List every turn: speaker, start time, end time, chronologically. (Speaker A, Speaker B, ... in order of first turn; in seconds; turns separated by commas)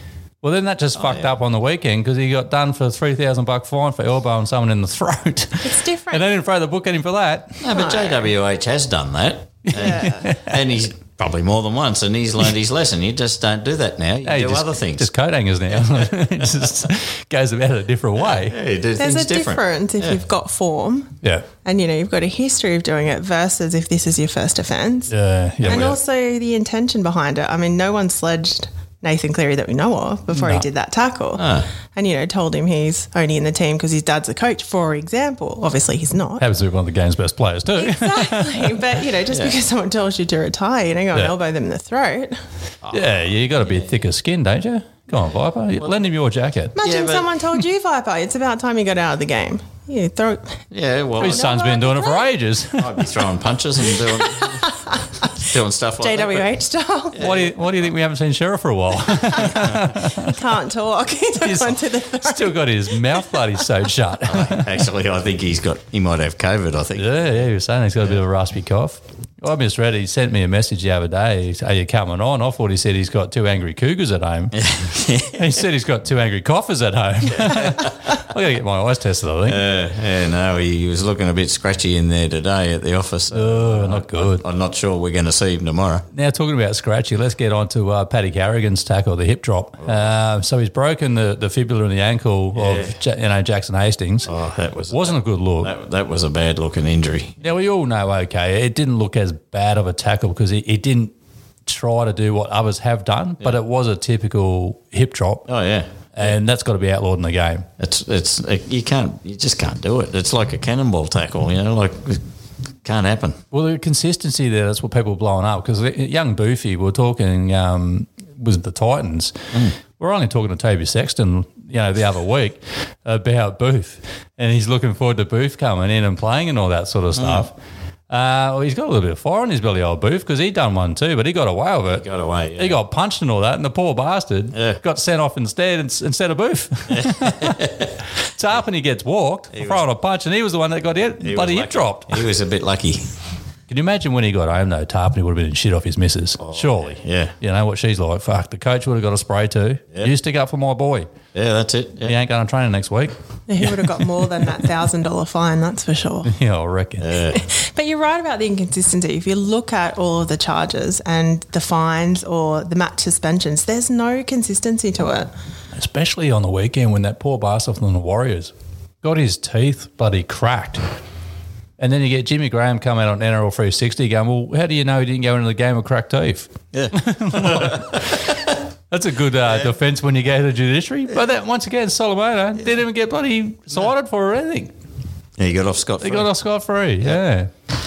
Speaker A: 0.4-7.6, Speaker B: 1.0-1.3, Speaker C: 5.6-6.2, Speaker B: 7.6-15.1, Speaker C: 7.7-8.2, Speaker A: 9.7-10.6, Speaker C: 9.7-10.3, Speaker A: 14.2-18.6, Speaker B: 18.2-20.2, Speaker C: 19.0-25.1, Speaker A: 25.1-25.9, Speaker B: 25.6-25.9, Speaker C: 25.6-36.5, Speaker A: 30.3-30.6, Speaker B: 31.4-31.7, Speaker A: 36.4-38.9, Speaker C: 37.7-42.4, Speaker B: 42.8-44.0, Speaker A: 42.9-46.7, Speaker C: 46.7-50.6, Speaker B: 46.8-47.3, Speaker B: 50.7-51.5, Speaker C: 51.2-52.3, Speaker A: 51.2-53.1, Speaker B: 52.8-54.6, Speaker C: 54.1-55.5, Speaker B: 55.4-56.5, Speaker C: 56.0-57.2, Speaker B: 57.1-57.5, Speaker A: 57.2-60.4, Speaker C: 59.3-63.4, Speaker A: 61.4-64.7, Speaker B: 64.2-67.1, Speaker A: 67.0-74.5, Speaker B: 74.5-75.6, Speaker A: 75.3-79.6, Speaker B: 77.3-77.9, Speaker B: 79.5-86.0, Speaker A: 83.3-84.4, Speaker A: 86.1-94.3, Speaker B: 92.5-92.9, Speaker B: 94.2-97.4, Speaker A: 94.9-95.7, Speaker A: 97.4-101.1, Speaker A: 101.7-105.5, Speaker B: 105.5-106.3, Speaker A: 106.2-107.7, Speaker B: 107.8-112.2, Speaker B: 112.8-113.4, Speaker A: 113.5-119.4, Speaker A: 120.0-127.5, Speaker B: 127.1-127.5, Speaker A: 128.1-132.0, Speaker B: 131.9-132.8, Speaker A: 132.6-137.6, Speaker B: 134.5-134.8, Speaker B: 136.9-137.9, Speaker A: 138.3-142.2, Speaker B: 139.5-139.8, Speaker B: 141.2-143.1, Speaker A: 143.7-151.1, Speaker B: 146.4-147.3, Speaker B: 151.3-152.2, Speaker A: 152.0-154.0, Speaker C: 153.5-156.3, Speaker A: 156.2-157.1, Speaker B: 157.0-157.4, Speaker C: 157.3-165.3, Speaker A: 165.7-170.8, Speaker A: 171.8-184.7, Speaker B: 176.7-178.5, Speaker B: 185.4-186.3, Speaker A: 186.0-187.5